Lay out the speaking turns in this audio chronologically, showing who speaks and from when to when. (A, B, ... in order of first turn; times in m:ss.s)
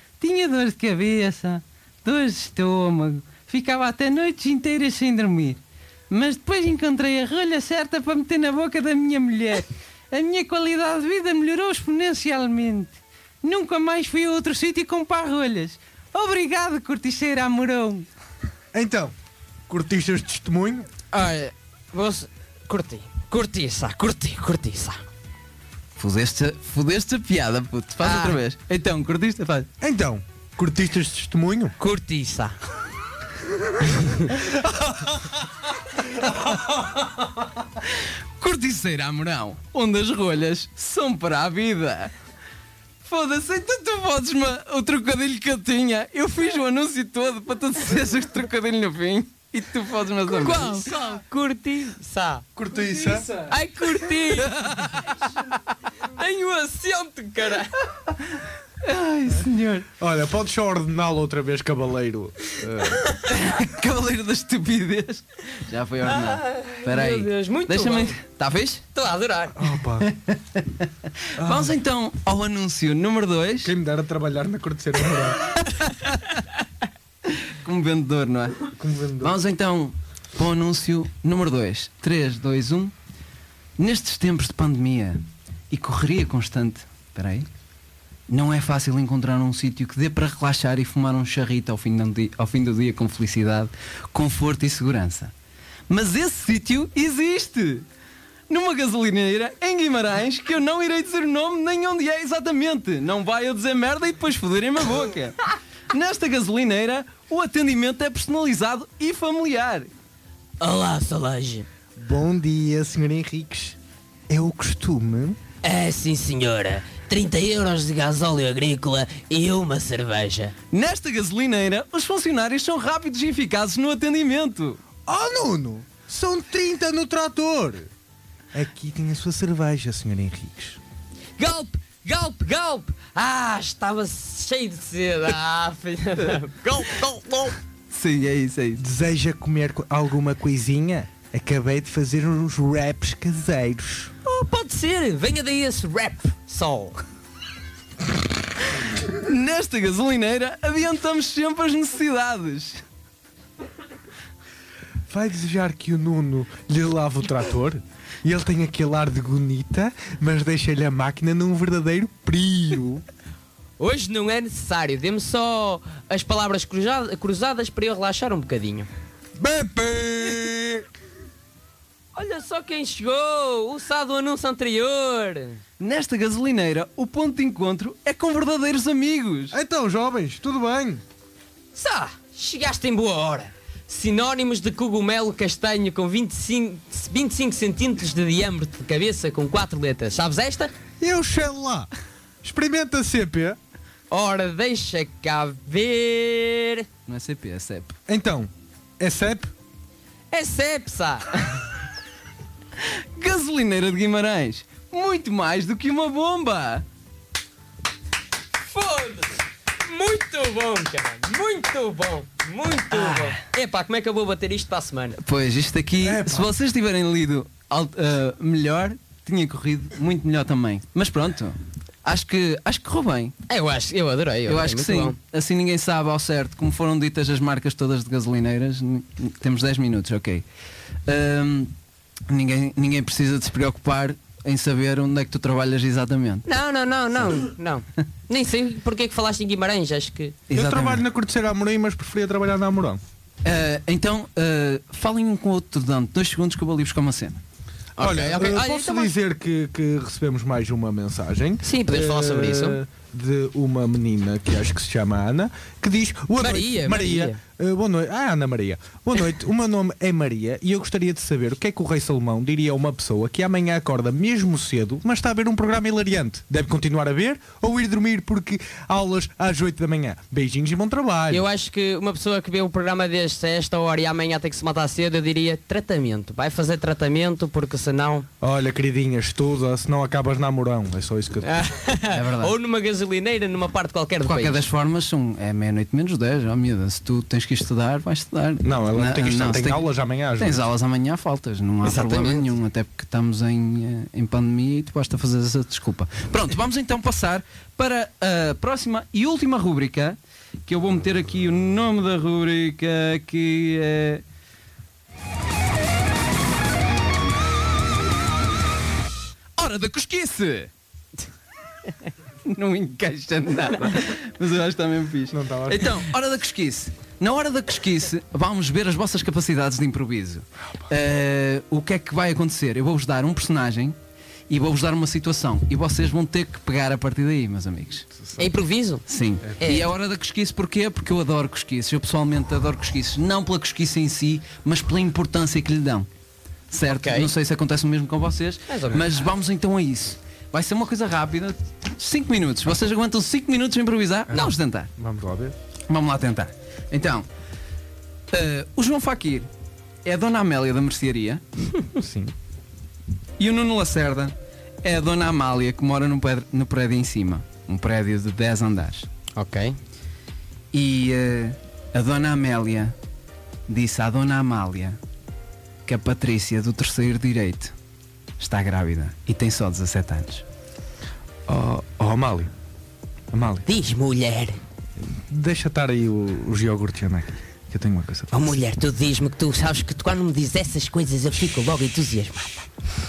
0:00.2-0:18.1 A
0:18.7-0:19.1 B
0:19.7-0:20.9 B
0:21.1-0:25.0 C
0:26.0-0:29.7 A
0:28.0-0:28.4 C
0:29.8-0:31.8 B
0:31.8-0:32.6 C
0:34.0-0:34.3 C
0:34.3-0:37.1 B
0:37.8-0:42.1 A
0:43.0-0:50.9 A
0:50.3-0:52.5 C
0:52.6-0:53.4 B
0:53.3-0:57.8 C
0:54.5-0:55.1 A
0:58.8-0:59.9 A
1:00.0-1:03.0 B
1:03.2-1:08.8 A
1:06.1-1:08.2 C
1:08.9-1:09.6 C
1:09.6-1:10.1 B
1:10.0-1:13.7 A
1:11.4-1:11.8 B
1:13.6-1:15.5 B
1:17.3-1:22.9 A
1:18.8-1:19.4 B
1:23.8-1:27.5 A
1:28.3-1:35.3 A
1:35.9-1:37.9 A
1:38.5-1:49.9 A
1:50.6-1:51.7 C
1:52.0-1:53.8 B
1:54.3-1:55.4 B
1:55.6-2:00.5 C
2:00.7-2:04.8 A
2:05.1-2:07.9 B
2:08.5-2:10.8 B
2:11.4-2:17.6 C
2:17.9-2:18.8 A
2:18.8-2:24.1 B
2:24.2-2:27.0 C
2:28.9-2:32.8 A
2:35.1-2:43.0 B
2:43.8-2:48.9 C
2:49.4-2:50.9 B
2:52.2-2:55.6 C
2:55.8-2:59.6 A
2:59.5-3:01.0 B
3:01.8-3:10.7 C
3:11.0-3:11.9 B
3:12.4-3:13.6 B
3:14.1-3:16.9 C
3:17.1-3:18.0 A
3:18.1-3:19.5 B
3:20.3-3:21.4 C
3:22.8-3:26.8 A
3:28.7-3:35.2 C
3:32.9-3:33.4 A
3:35.2-3:43.3 A
3:36.0-3:36.5 B
3:43.5-3:45.2 C
3:44.5-3:50.4 A
3:51.1-3:51.7 A
3:52.3-3:56.5 A
3:56.4-4:00.4 C
4:00.5-4:01.0 A
4:00.5-4:03.0 B
4:03.4-4:07.4 A
4:08.0-4:09.1 C
4:08.0-4:31.4 B
4:11.6-4:12.8 C
4:16.4-4:17.4 C
4:31.3-4:38.3 C
4:38.4-4:41.6 B
4:41.4-4:44.6 C
4:42.1-4:42.6 A
4:44.2-4:49.9 A
4:48.6-4:50.7 B
4:50.4-5:04.2 A
4:51.8-4:52.5 C
5:09.6-5:10.7 A
5:12.5-5:24.0 A
5:15.3-5:16.1 B
5:24.5-5:28.1 A
5:28.2-5:28.5 B
5:28.4-5:29.0 C
5:29.1-5:36.1 A
5:29.4-5:29.8 B
5:29.6-5:29.9 C
5:36.7-5:44.9 A
5:36.9-5:37.3 C
5:38.7-5:39.1 C
5:44.3-5:45.6 B
5:45.9-5:47.3 A
5:48.3-5:49.5 A
5:50.0-5:51.4 A
5:52.0-5:52.3 B
5:53.4-5:59.1 A
5:59.4-5:59.8 C
6:00.7-6:03.0 A
6:03.7-6:05.0 A
6:05.9-6:07.7 A
6:08.4-6:10.4 A
6:11.5-6:12.5 B
6:13.3-6:13.7 B
6:13.7-6:14.6 C
6:15.0-6:18.3 B
6:18.3-6:22.7 C